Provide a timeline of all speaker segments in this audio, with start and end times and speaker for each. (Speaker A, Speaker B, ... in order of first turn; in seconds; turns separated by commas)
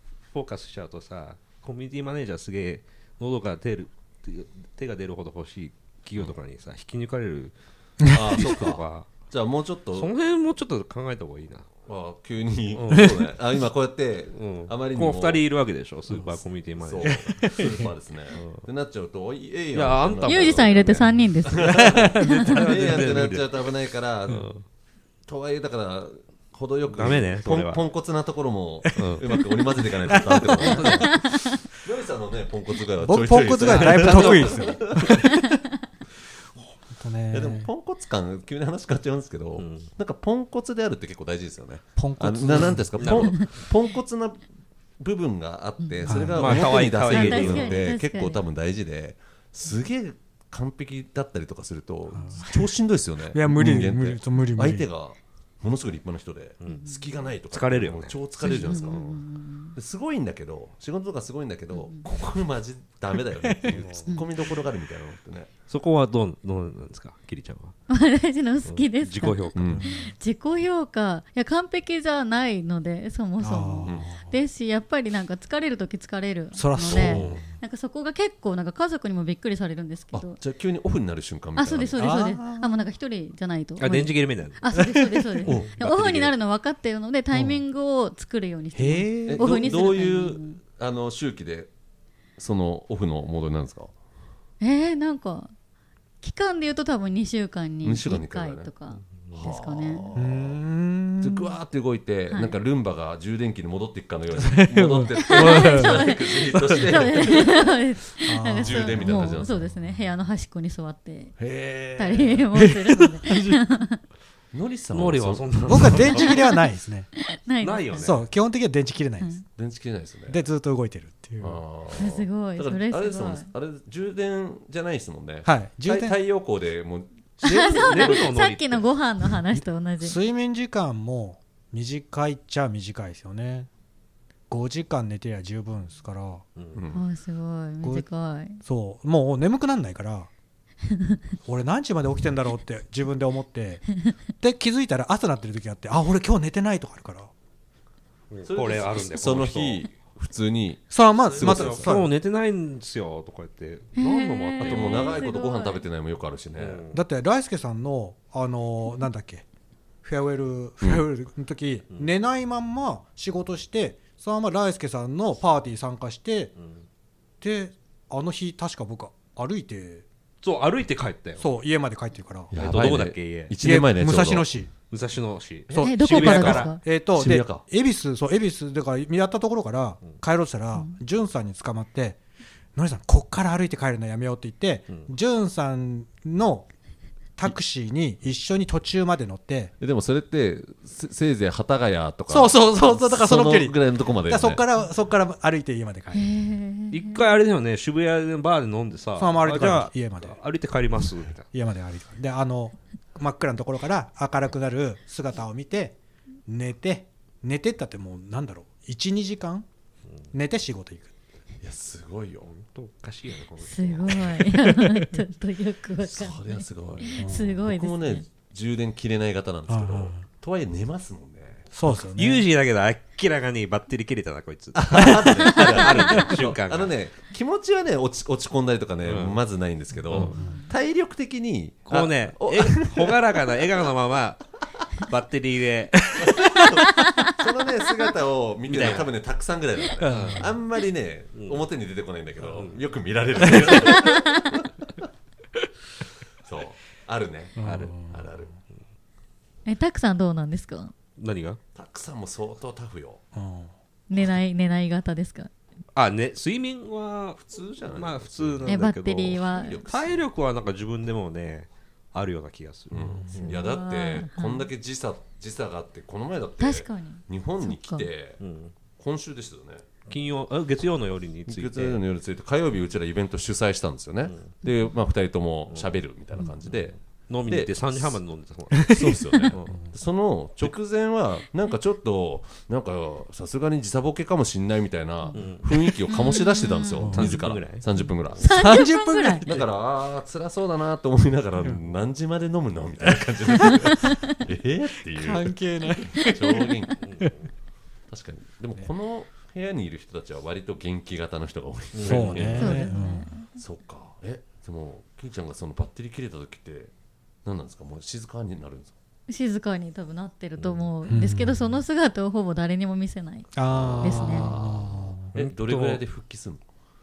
Speaker A: 0.3-7.5, Speaker B: 8.1-10.1, Speaker A: 8.1-9.1, Speaker A: 9.9-11.7, Speaker B: 11.8-15.5, Speaker A: 12.7-13.1, Speaker A: 14.3-17.8, Speaker B: 16.1-24.5, Speaker C: 17.0-17.9, Speaker A: 18.3-18.6, Speaker A: 19.7-21.0, Speaker D: 20.2-22.3, Speaker C: 21.6-22.5, Speaker A: 21.9-23.8, Speaker A: 24.3-24.6, Speaker B: 25.3-35.1, Speaker A: 26.9-27.8, Speaker C: 28.9-29.4, Speaker A: 28.9-29.2, Speaker C: 30.1-31.3, Speaker A: 30.4-31.1, Speaker D: 30.9-31.5, Speaker C: 33.0-35.4, Speaker A: 33.6-35.1, Speaker C: 36.9-37.7, Speaker B: 37.3-44.5, Speaker A: 39.5-39.9, Speaker C: 42.0-43.1, Speaker A: 42.9-43.4, Speaker D: 43.1-43.4, Speaker B: 45.0-59.2, Speaker D: 45.8-48.4, Speaker C: 46.0-46.6, Speaker A: 46.3-47.9, Speaker C: 52.1-52.7, Speaker C: 53.3-54.9, Speaker A: 56.6-56.9, Speaker D: 56.6-57.0, Speaker A: 57.5-58.2, Speaker D: 58.4-59.8, Speaker C: 58.4-58.8, Speaker B: 59.7-65.5, Speaker D: 61.7-62.0, Speaker C: 63.4-64.1, Speaker A: 65.7-67.7, Speaker D: 67.9-80.4, Speaker A: 68.6-69.8, Speaker B: 69.5-69.9, Speaker C: 69.7-70.1, Speaker C: 73.4-74.3, Speaker C: 76.5-77.5, Speaker B: 76.9-77.4, Speaker B: 80.1-82.0, Speaker D: 81.5-90.6, Speaker C: 82.0-82.7, Speaker A: 83.8-84.6, Speaker C: 84.8-85.5, Speaker B: 85.4-85.7, Speaker A: 85.7-86.3, Speaker C: 87.3-87.6, Speaker C: 88.7-89.6, Speaker B: 89.3-91.7, Speaker B: 92.4-93.9, Speaker D: 94.6-95.5, Speaker D: 96.2-100.0, Speaker B: 97.8-98.7, Speaker B: 99.3-100.6, Speaker C: 100.1-101.5, Speaker B: 101.2-107.7, Speaker C: 104.4-106.0, Speaker D: 105.2-111.4, Speaker C: 108.2-109.5, Speaker B: 108.6-109.6, Speaker B: 111.4-112.4, Speaker D: 112.0-114.0, Speaker C: 112.5-113.6, Speaker B: 114.5-116.4, Speaker A: 114.9-116.3, Speaker C: 115.7-117.1, Speaker D: 116.0-116.7, Speaker D: 117.2-118.1, Speaker A: 117.6-118.2, Speaker C: 117.9-119.3, Speaker D: 119.2-119.5, Speaker B: 119.6-120.4, Speaker C: 120.3-121.6, Speaker B: 121.4-128.3, Speaker D: 122.0-123.5, Speaker C: 125.4-126.2, Speaker A: 127.4-128.9, Speaker D: 127.4-130.2, Speaker C: 130.0-133.7, Speaker C: 134.5-136.4, Speaker A: 136.6-136.8, Speaker B: 136.7-137.0, Speaker D: 136.9-138.6, Speaker C: 137.8-138.1, Speaker C: 138.6-140.3, Speaker D: 140.9-141.2, Speaker C: 141.4-147.3, Speaker A: 148.3-149.8, Speaker B: 148.4-151.9, Speaker C: 150.9-152.1, Speaker A: 151.4-155.2, Speaker D: 154.0-155.8, Speaker B: 154.6-156.8, Speaker A: 156.6-157.0, Speaker C: 156.9-159.4, Speaker C: 160.0-166.5, Speaker A: 166.6-166.8, Speaker C: 167.4-170.1, Speaker A: 170.4-171.5, Speaker C: 171.4-172.5, Speaker B: 172.5-174.5, Speaker A: 172.5-173.5, Speaker C: 173.6-174.7, Speaker A: 174.9-176.7, Speaker B: 175.7-177.6, Speaker C: 175.7-182.2, Speaker D: 175.8-176.8, Speaker C: 182.7-186.7, Speaker C: 187.4-189.7, Speaker B: 189.8-194.6, Speaker C: 192.3-196.3, Speaker D: 196.1-197.3, Speaker A: 196.9-201.5, Speaker C: 199.2-200.4, Speaker C: 201.5-209.7, Speaker C: 210.3-211.1, Speaker B: 211.6-212.5, Speaker A: 212.4-214.5, Speaker D: 213.6-218.2, Speaker C: 214.7-215.0, Speaker B: 216.0-221.7, Speaker C: 217.2-217.6, Speaker C: 219.7-220.2, Speaker C: 221.7-222.4, Speaker A: 222.1-226.9, Speaker B: 224.7-233.3, Speaker C: 225.1-225.4, Speaker A: 229.0-229.4, Speaker A: 230.1-230.4, Speaker C: 230.3-230.6, Speaker D: 230.3-230.6, Speaker A: 231.9-236.0, Speaker B: 236.2-244.7, Speaker C: 236.2-236.8, Speaker A: 238.7-239.1, Speaker C: 240.0-240.5, Speaker A: 240.1-240.5, Speaker A: 241.3-241.6, Speaker A: 242.4-242.8, Speaker B: 246.4-248.5, Speaker C: 247.6-248.3, Speaker A: 247.6-248.0, Speaker D: 249.7-250.9, Speaker A: 251.2-251.6, Speaker B: 251.7-253.2, Speaker C: 253.3-253.7, Speaker D: 254.1-255.5, Speaker A: 255.9-263.5, Speaker B: 257.4-260.2, Speaker D: 258.7-259.8, Speaker C: 262.9-263.6, Speaker B: 262.9-269.9, Speaker D: 263.4-264.7, Speaker D: 266.6-268.1, Speaker A: 268.4-268.7, Speaker A: 270.1-272.0, Speaker B: 271.5-278.2, Speaker A: 275.7-275.9, Speaker A: 276.7-279.8, Speaker C: 278.8-279.9, Speaker B: 278.9-288.5, Speaker A: 285.3-285.7, Speaker D: 286.1-287.1, Speaker C: 287.0-287.4, Speaker A: 287.1-288.4, Speaker D: 288.4-289.4, Speaker C: 288.4-289.6, Speaker B: 289.4-297.1, Speaker C: 293.6-294.0, Speaker C: 295.1-296.6, Speaker D: 296.2-296.7, Speaker A: 297.0-297.5, Speaker B: 298.1-302.9, Speaker A: 301.9-302.6, Speaker C: 302.0-303.3, Speaker D: 302.6-303.5, Speaker B: 303.6-306.9, Speaker B: 307.4-308.9, Speaker D: 309.3-314.5, Speaker A: 310.6-310.9, Speaker C: 311.1-311.8, Speaker C: 313.5-315.3, Speaker B: 313.7-316.6, Speaker A: 315.3-316.0